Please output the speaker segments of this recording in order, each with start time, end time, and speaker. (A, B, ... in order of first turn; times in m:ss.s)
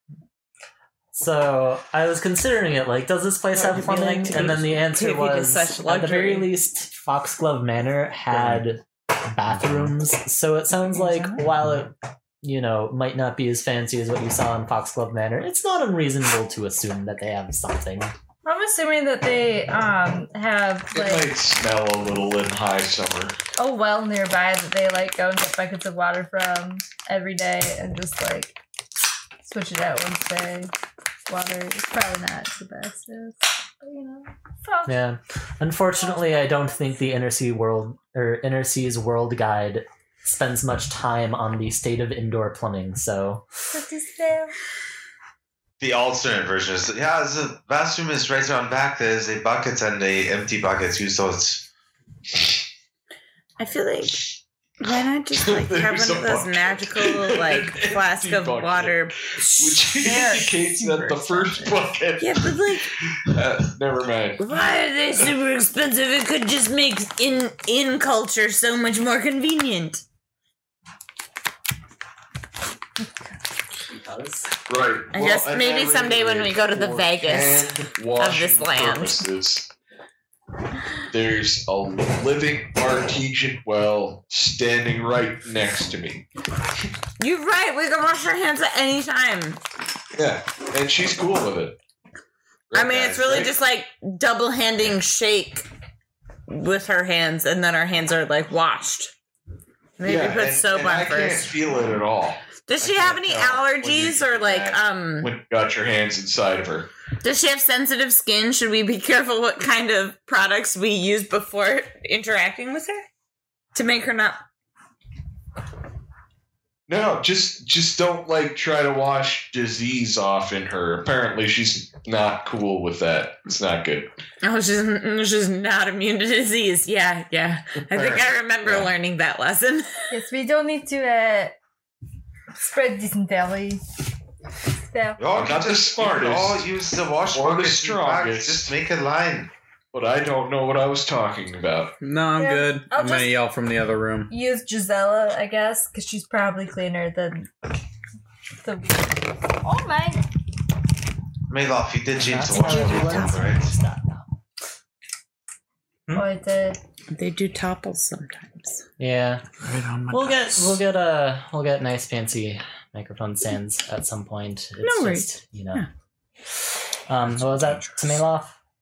0:01.1-0:18.1 A
0:03.6-0:06.5 B
0:08.3-0:08.6 C
0:10.9-0:11.4 B
0:18.4-0:21.3 D
0:20.9-0:23.4 E
0:23.6-0:28.6 D
0:29.4-0:30.7 D
0:31.3-0:35.0 D
0:34.9-0:43.5 A
0:36.0-0:37.0 D
0:43.7-0:44.5 D
0:45.8-0:51.6 F
0:53.6-0:54.3 B
0:54.8-1:00.5 B
0:55.3-1:04.5 E
1:00.0-1:01.8 D
1:02.2-1:02.9 B
1:04.4-1:10.0 B
1:13.9-1:14.5 A
1:14.7-1:19.7 E
1:15.1-1:19.2 B
1:21.1-1:26.3 E
1:27.2-1:29.6 B
1:30.2-1:31.8 E
1:32.7-1:33.5 E
1:32.7-1:35.7 B
1:33.1-1:33.4 F
1:36.5-1:39.1 B
1:40.0-1:41.6 B
1:40.0-1:46.9 E
1:42.7-1:45.3 B
1:47.2-1:53.1 B
1:53.7-1:54.4 B
1:56.9-2:04.1 E
2:04.4-2:10.0 B
2:07.9-2:08.9 E
2:10.1-2:11.6 D
2:12.6-2:13.8 D
2:14.9-2:15.2 D
2:15.2-2:19.5 F
2:15.3-2:16.7 E
2:17.3-2:18.7 E
2:19.9-2:21.9 E
2:22.0-2:24.3 C
2:22.4-2:23.4 D
2:24.3-2:27.6 D
2:28.6-2:30.2 D
2:31.5-2:33.7 F
2:32.2-2:34.3 A
2:32.6-2:33.2 B
2:36.1-2:36.8 D
2:37.1-2:38.8 B
2:39.0-2:39.4 A
2:39.6-2:40.8 C
2:40.1-2:45.8 A
2:44.8-2:45.9 B
2:47.1-2:48.6 A
2:47.3-2:48.2 C